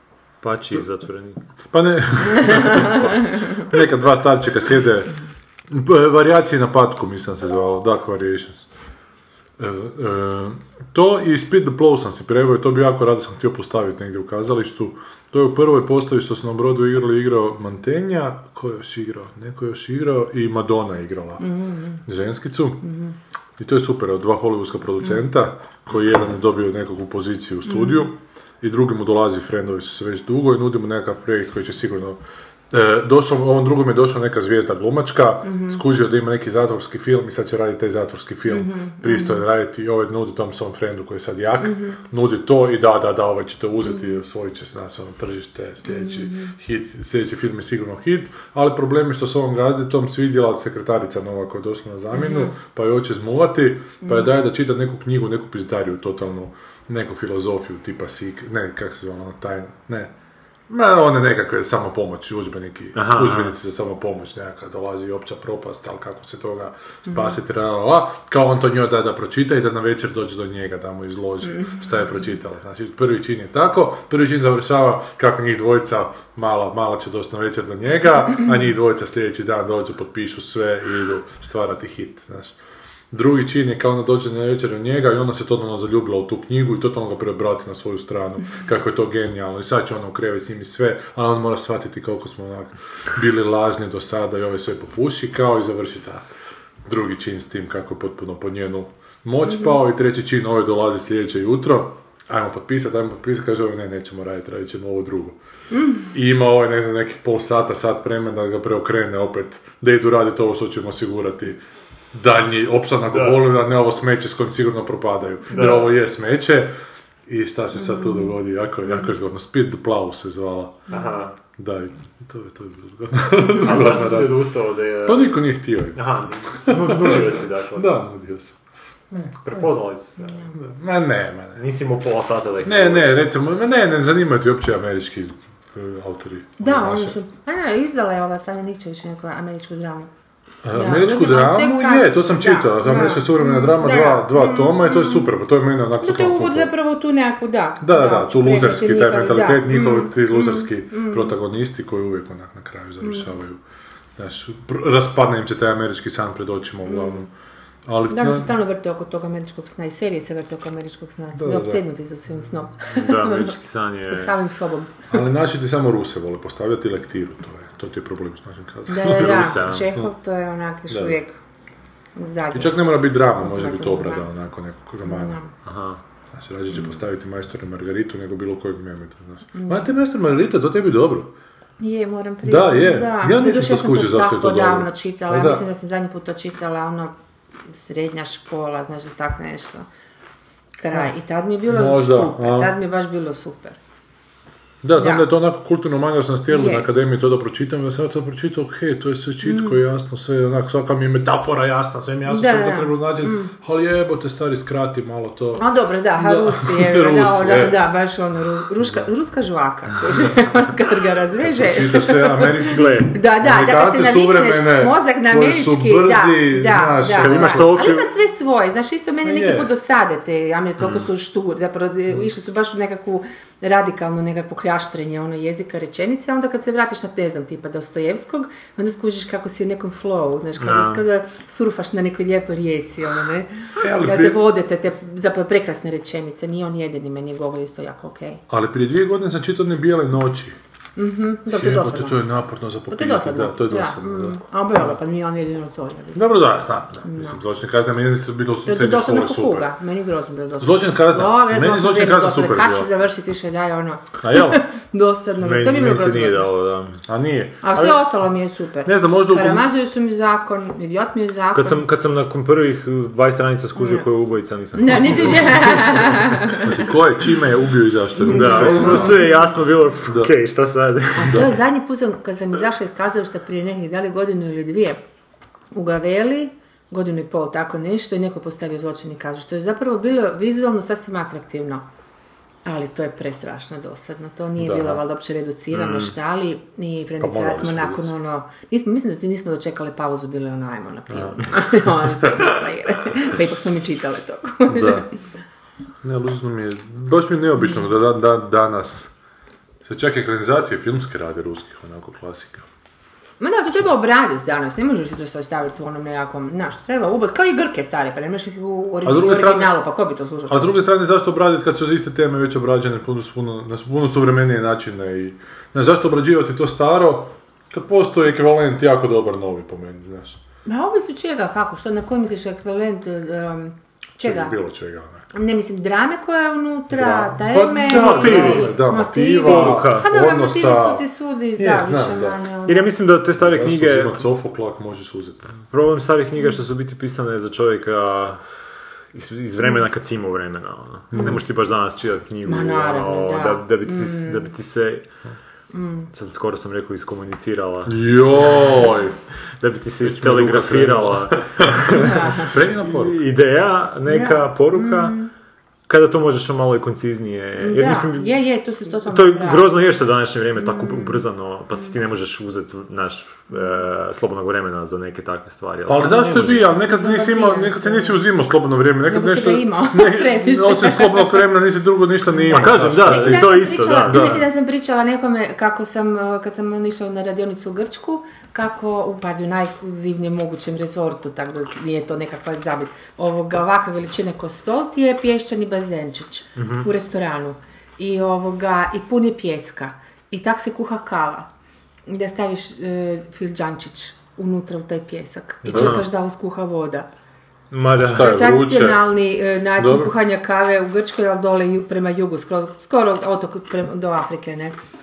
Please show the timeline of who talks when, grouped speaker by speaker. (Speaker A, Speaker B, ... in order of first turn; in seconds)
Speaker A: 0.4-1.4, 63.0-63.5, 113.1-113.5, 115.5-115.9, 120.9-121.4, 123.6-128.0, 129.4-130.4, 131.6-133.2, 162.9-164.4, 169.1-169.9, 175.7-176.0, 212.7-213.1, 217.1-218.1, 220.8-221.1, 230.6-231.1, 255.4-257.0, 261.5-266.4, 268.3-271.5, 285.8-286.1, 327.8-328.7, 329.4-330.1, 332.7-334.2, 335.7-338.4, 339.1-345.1, 346.1-348.0, 349.6-355.2, 355.9-358.4, 359.1-366.8, 372.5-374.4, 386.6-386.9, 395.7-396.1, 397.7-398.4
Speaker B: 1.7-5.2, 5.7-8.7, 9.6-21.5, 22.1-22.9, 23.6-60.1, 60.7-82.6, 83.1-96.3, 96.9-105.4, 106.1-111.6, 112.1-116.8, 117.3-120.9, 121.6-124.5, 125.0-128.6, 130.6-131.6, 132.6-137.2, 140.6-146.7, 147.8-153.6, 154.2-157.3, 157.9-158.5, 161.3-161.8, 165.1-170.1, 170.9-171.2, 172.5-175.4, 176.3-181.3, 182.4-185.7, 191.7-192.8, 194.8-207.8, 211.4-217.8, 219.2-219.7, 233.8-234.5, 238.5-240.6, 241.5-244.4, 246.2-249.7, 250.6-252.9, 254.2-254.6, 257.1-258.1, 258.9-259.7, 266.5-269.2, 271.3-271.6, 284.6-285.0, 287.2-288.1, 291.1-292.1, 294.7-295.1, 296.0-299.1, 299.8-302.7, 309.1-309.8, 310.5-320.4, 324.2-325.2, 326.9-332.4, 333.4-335.6, 341.1-341.4, 347.9-349.2, 350.0-353.2, 365.9-374.5, 395.6-396.0, 398.0-399.2, 399.8-400.1
Speaker C: 2.4-2.9, 21.4-22.0, 22.9-23.1, 27.7-28.1, 35.5-35.8, 38.5-39.4, 41.6-42.0, 45.9-46.5, 52.1-52.5, 54.0-54.3, 99.5-99.8, 105.7-106.1, 117.8-118.3, 136.6-140.1, 140.7-145.3, 146.0-151.4, 156.9-157.3, 158.1-163.5, 164.1-164.9, 168.9-171.4, 172.2-174.3, 175.1-175.5, 179.5-179.9, 181.8-187.1, 187.7-189.9, 190.8-193.8, 195.0-195.3, 196.5-196.9, 199.4-199.8, 202.3-203.5, 205.6-238.4, 241.0-242.2, 242.9-246.4, 247.0-247.4, 248.7-256.5, 257.6-261.8, 263.8-264.1, 264.8-266.7, 268.2-269.3, 271.2-275.0, 275.7-281.9, 282.6-295.1, 303.4-310.8, 320.7-324.6, 325.3-332.9, 342.4-344.5, 345.7-346.1, 352.0-352.5, 354.1-355.3, 357.6-359.7, 360.6-361.2, 366.2-368.2, 369.1-371.6, 372.3-391.5, 392.1-397.1, 398.1-404.8